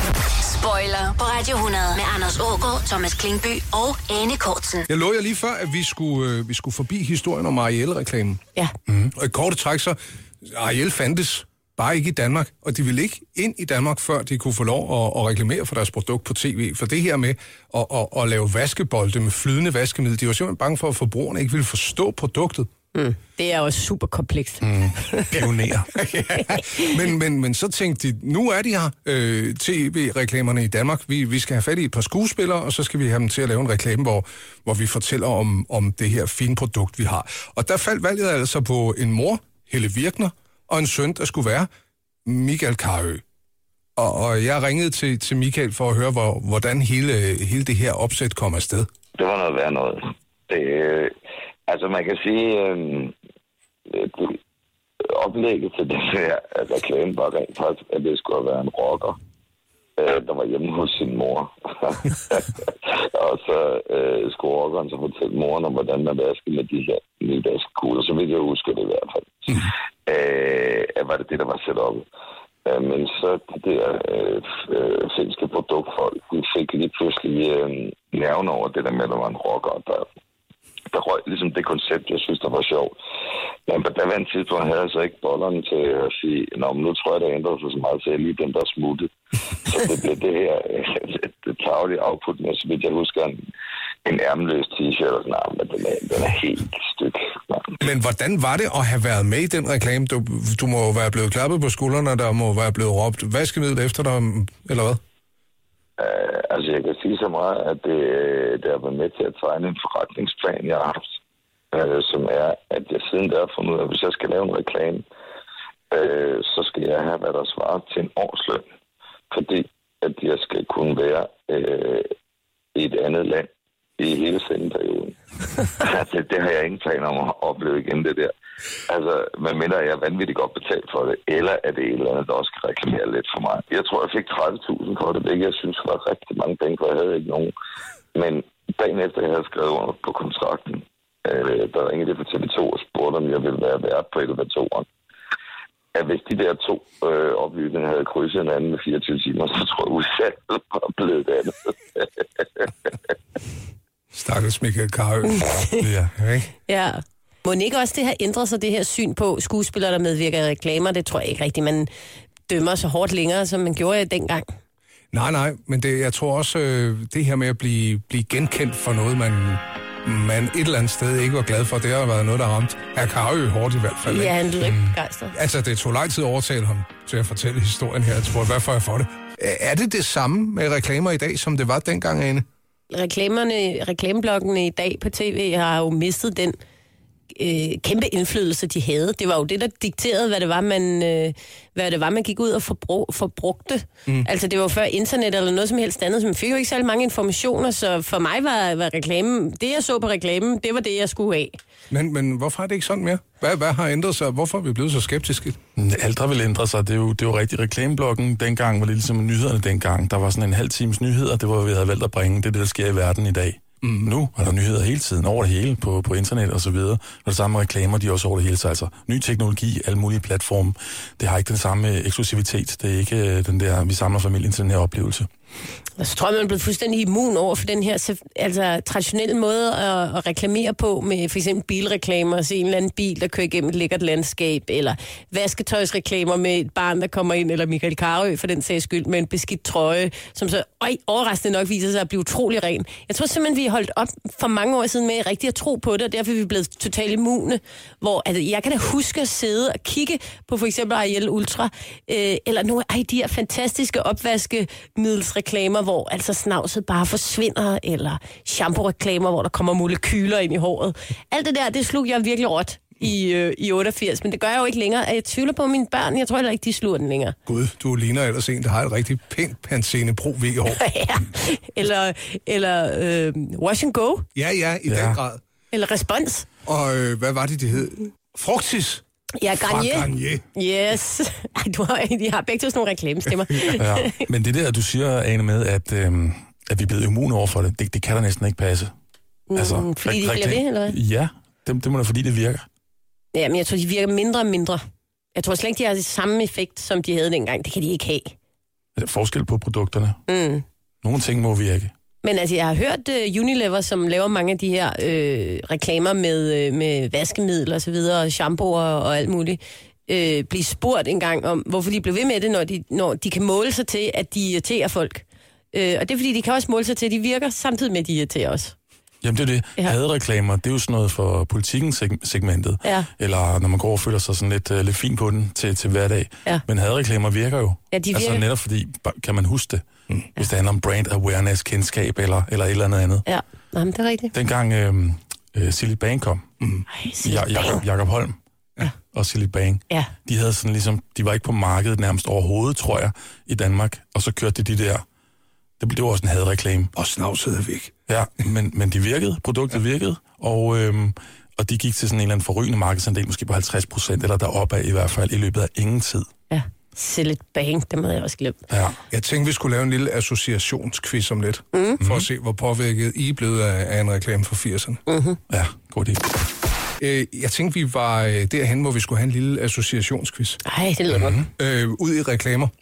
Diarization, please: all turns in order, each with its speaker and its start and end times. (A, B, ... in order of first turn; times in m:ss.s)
0:00.4-0:04.9 A
0:04.9-0:08.4 B
0:08.9-0:09.1 C
0:09.1-0:22.7 B
0:22.9-0:25.4 D
0:24.6-0:25.9 C
0:25.9-0:41.7 B
0:26.5-0:26.9 D
0:42.2-0:43.2 B
0:44.0-0:48.9 B
0:49.2-0:51.2 E
0:51.7-0:53.1 E
0:53.9-0:54.4 E
0:55.1-0:59.2 E
1:00.0-1:12.1 E
1:12.7-1:20.1 E
1:20.9-1:22.9 E
1:23.7-1:29.1 E
1:29.6-1:33.4 E
1:34.0-1:37.7 E
1:37.8-1:45.0 B
1:46.0-1:51.2 E
1:51.7-1:55.0 E
1:55.9-1:58.6 E
1:59.3-2:02.1 E
2:02.8-2:05.2 E
2:05.7-2:08.3 E
2:08.9-2:17.5 E
2:18.2-2:24.8 E
2:25.9-2:32.7 E
2:34.1-2:35.5 B
2:35.3-2:35.9 D
2:35.8-2:36.1 C
2:36.2-2:36.5 B
2:36.7-2:41.9 D
2:42.5-2:44.4 D
2:45.1-2:54.4 B
2:54.1-2:55.3 D
2:54.6-2:54.9 C
2:55.3-3:02.4 B
3:02.9-3:06.6 D
3:07.3-3:21.6 D
3:21.9-3:25.6 B
3:25.8-3:45.3 C
3:33.8-3:34.1 B
3:46.0-4:27.4 D
4:27.5-4:30.8 B
4:30.8-4:34.3 D
4:34.4-4:35.4 B
4:34.8-4:35.2 C
4:35.7-4:36.4 D
4:36.7-4:39.0 B
4:39.4-4:44.2 D
4:39.6-4:40.4 B
4:43.7-4:48.9 C
4:49.5-4:51.0 D
4:49.6-4:52.7 C
4:53.3-4:54.8 D
4:55.3-4:58.3 D
4:59.0-5:00.2 C
5:00.3-5:00.6 D
5:01.0-5:01.9 C
5:02.2-5:18.7 D
5:19.2-5:29.8 C
5:27.9-5:28.4 D
5:30.4-5:33.3 C
5:33.3-5:34.3 D
5:34.3-5:36.5 C
5:36.9-5:37.8 D
5:37.2-5:38.4 C
5:39.1-5:45.0 C
5:45.8-5:46.9 C
5:46.9-5:47.9 B
5:48.1-5:56.3 C
5:56.5-5:58.6 D
5:58.7-5:59.0 C
5:59.1-6:05.0 B
6:01.7-6:02.0 D
6:02.0-6:02.3 C
6:05.1-6:05.4 D
6:05.5-6:06.3 C
6:07.0-6:10.6 B
6:10.6-6:11.4 D
6:11.1-6:11.5 C
6:11.6-6:12.7 B